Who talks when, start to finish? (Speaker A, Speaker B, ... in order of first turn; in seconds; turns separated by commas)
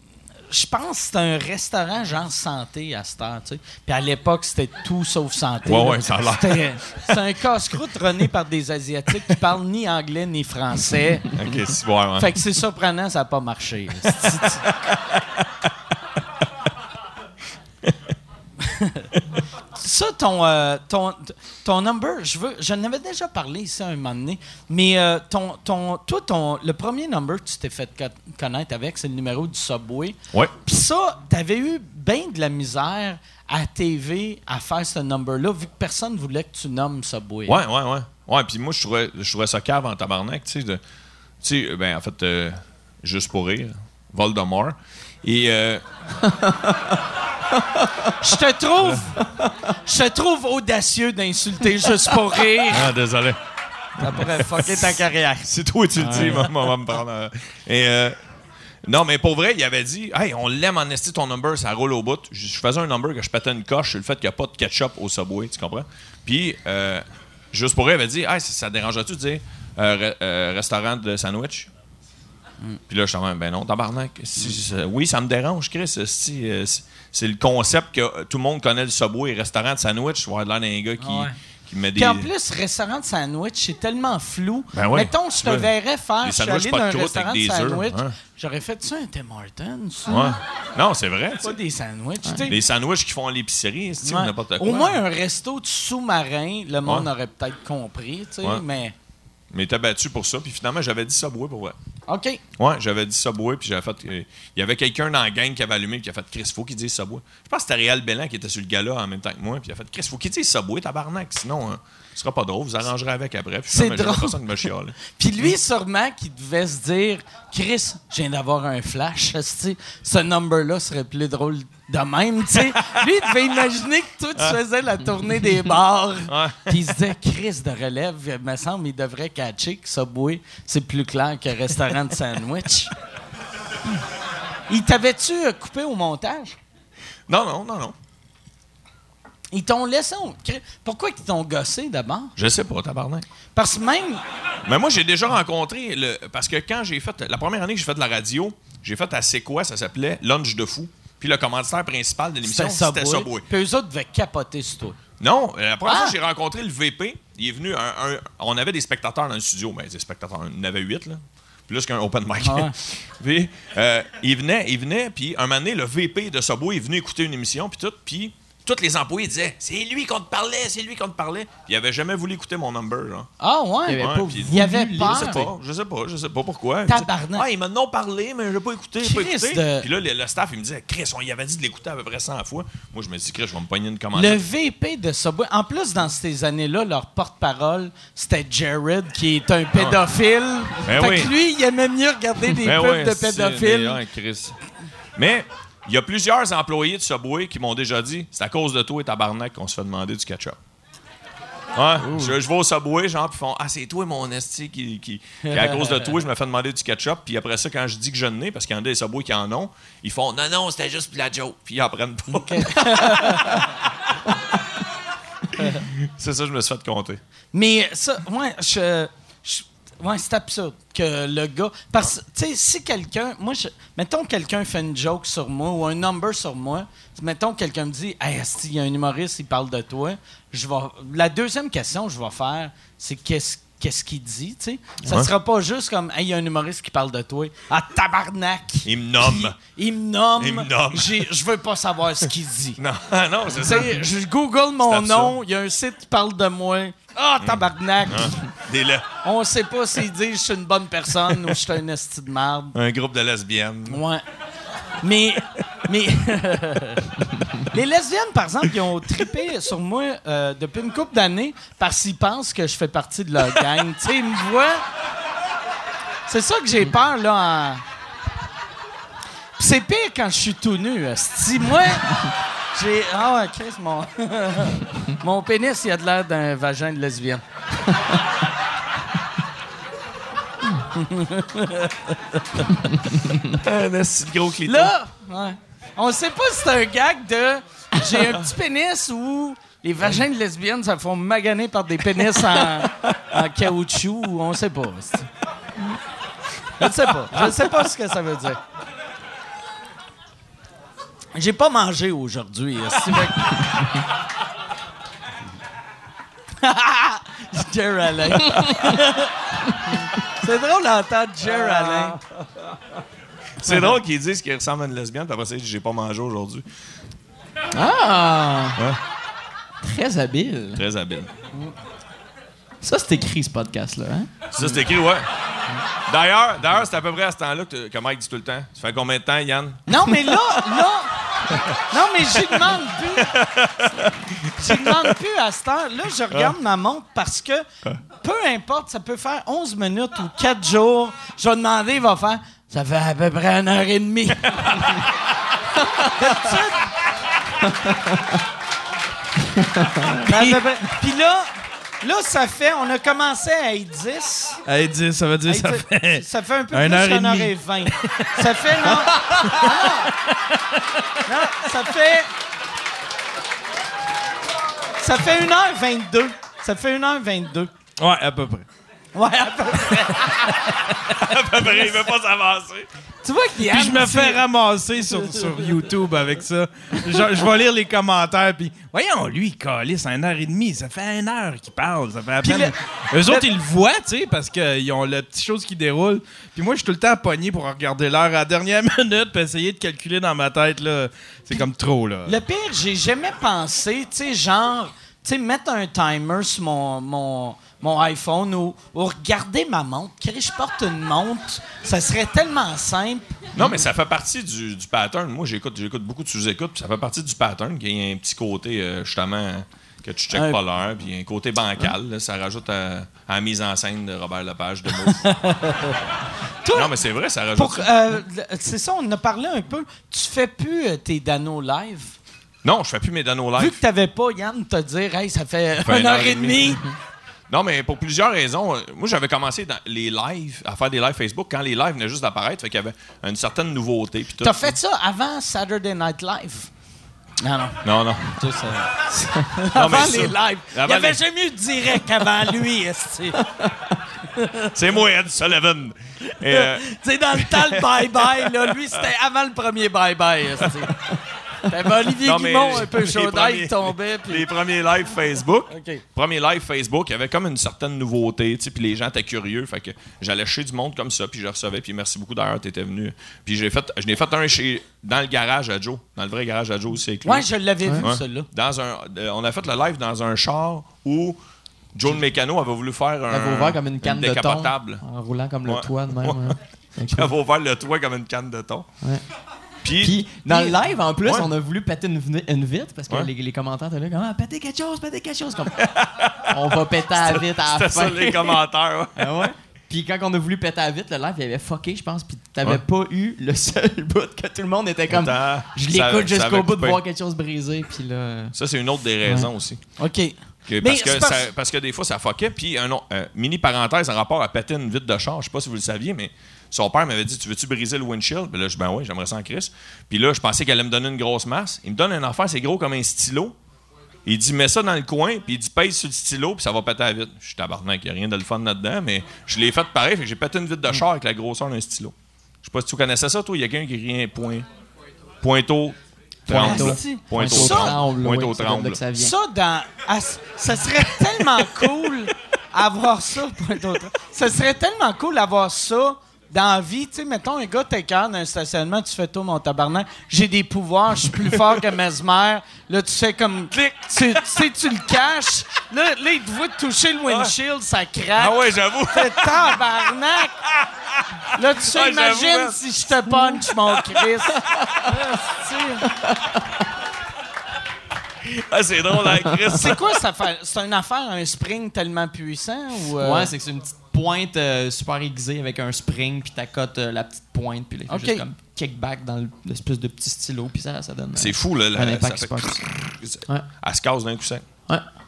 Speaker A: 0.5-11.4, Speaker B: 5.6-6.8, Speaker B: 11.3-12.4, Speaker A: 12.2-14.7, Speaker B: 14.4-15.5, Speaker A: 18.6-19.1, Speaker A: 19.8-37.6, Speaker B: 37.5-40.8, Speaker B: 41.4-45.8, Speaker C: 46.2-47.0, Speaker C: 47.5-48.1, Speaker A: 48.2-49.2, Speaker A: 49.8-52.9, Speaker B: 52.6-53.4, Speaker A: 54.0-55.5, Speaker B: 54.0-58.2, Speaker C: 56.0-56.4, Speaker B: 58.8-71.7, Speaker B: 72.9-82.3, Speaker A: 81.0-81.3, Speaker A: 82.0-90.4, Speaker B: 84.7-85.7, Speaker B: 86.2-88.1, Speaker B: 90.1-91.5, Speaker A: 91.4-92.6, Speaker B: 92.5-94.9, Speaker A: 94.0-98.9, Speaker B: 99.5-101.8, Speaker A: 102.1-102.4, Speaker B: 102.6-115.0, Speaker A: 113.7-132.9, Speaker B: 126.2-126.8, Speaker A: 134.7-136.6, Speaker B: 137.3-137.9, Speaker A: 139.5-142.3, Speaker B: 142.4-143.2, Speaker A: 143.5-144.2, Speaker B: 144.6-153.4, Speaker A: 152.4-155.0, Speaker B: 155.2-173.3, Speaker A: 155.8-156.2, Speaker A: 162.4-162.7, Speaker A: 173.4-175.5, Speaker C: 173.9-175.5, Speaker B: 174.0-184.4, Speaker A: 176.9-177.5, Speaker A: 179.0-179.9, Speaker A: 184.1-194.0, Speaker B: 189.7-190.0, Speaker B: 190.8-191.3, Speaker B: 192.6-194.6, Speaker B: 195.2-200.6, Speaker B: 201.7-214.1, Speaker A: 205.4-206.1, Speaker A: 212.5-213.6, Speaker B: 215.6-217.2, Speaker A: 217.5-242.8, Speaker B: 235.1-235.3, Speaker B: 238.8-239.6, Speaker B: 240.4-241.3, Speaker B: 242.8-244.0, Speaker A: 243.5-248.5, Speaker B: 244.8-245.4, Speaker B: 247.4-249.1, Speaker A: 249.2-252.7, Speaker B: 252.7-254.0, Speaker A: 253.9-254.2, Speaker A: 255.0-264.8, Speaker A: 266.3-267.8, Speaker A: 269.6-277.9, Speaker A: 280.9-282.7, Speaker C: 282.9-283.4, Speaker B: 283.5-284.9, Speaker A: 284.6-295.3, Speaker B: 293.0-293.4, Speaker A: 296.8-298.6, Speaker A: 301.3-303.8, Speaker A: 306.6-312.2, Speaker B: 313.6-316.6, Speaker C: 317.7-318.8, Speaker C: 319.8-320.8, Speaker B: 320.7-321.3, Speaker C: 322.8-324.3, Speaker B: 324.5-325.3, Speaker B: 326.1-330.8, Speaker A: 329.9-333.4, Speaker B: 332.3-335.1, Speaker A: 334.6-337.6, Speaker A: 338.2-345.0, Speaker B: 344.4-345.1, Speaker A: 346.0-346.9, Speaker C: 347.8-348.4, Speaker C: 349.5-350.2, Speaker A: 350.3-354.6, Speaker D: 350.3-350.6, Speaker D: 354.7-360.3, Speaker A: 355.5-360.1, Speaker A: 361.2-362.3, Speaker A: 365.0-367.7, Speaker D: 368.0-368.6, Speaker A: 369.1-370.8, Speaker B: 370.9-372.9, Speaker A: 373.2-374.4, Speaker D: 373.6-392.4, Speaker A: 375.2-375.5, Speaker A: 382.4-383.5, Speaker A: 392.2-403.4, Speaker B: 403.6-415.5, Speaker A: 410.3-410.6, Speaker A: 415.2-416.0, Speaker A: 416.6-416.9, Speaker B: 416.7-417.9, Speaker A: 417.5-422.1, Speaker B: 422.6-423.8, Speaker A: 423.6-426.9, Speaker B: 425.8-426.8, Speaker B: 427.5-434.7, Speaker A: 434.4-436.7, Speaker A: 437.4-437.8, Speaker B: 437.8-438.2, Speaker A: 438.4-443.4, Speaker B: 439.7-441.2, Speaker C: 443.6-443.9, Speaker A: 444.3-444.7, Speaker B: 444.7-449.1, Speaker A: 446.3-450.9, Speaker A: 451.7-454.5, Speaker B: 452.1-471.4, Speaker A: 455.7-456.0, Speaker A: 467.2-468.5, Speaker B: 471.9-475.0, Speaker C: 473.3-477.3, Speaker B: 475.6-476.6, Speaker B: 477.1-478.9, Speaker B: 479.8-481.5, Speaker C: 480.0-485.8, Speaker B: 485.8-489.5, Speaker C: 486.5-488.6, Speaker C: 489.1-498.5, Speaker B: 495.1-497.0, Speaker B: 498.5-499.8, Speaker A: 500.0-501.5, Speaker B: 500.7-513.5, Speaker B: 514.2-524.7, Speaker B: 525.4-529.0, Speaker C: 526.5-529.3, Speaker A: 526.5-528.0, Speaker A: 529.1-550.6, Speaker B: 547.3-547.5, Speaker B: 548.3-550.0, Speaker B: 550.6-553.1, Speaker A: 551.5-556.1, Speaker B: 553.7-555.2, Speaker C: 556.1-556.6, Speaker B: 558.4-560.0, Speaker A: 559.7-563.5, Speaker C: 563.2-573.7, Speaker A: 568.1-568.4, Speaker B: 571.4-574.6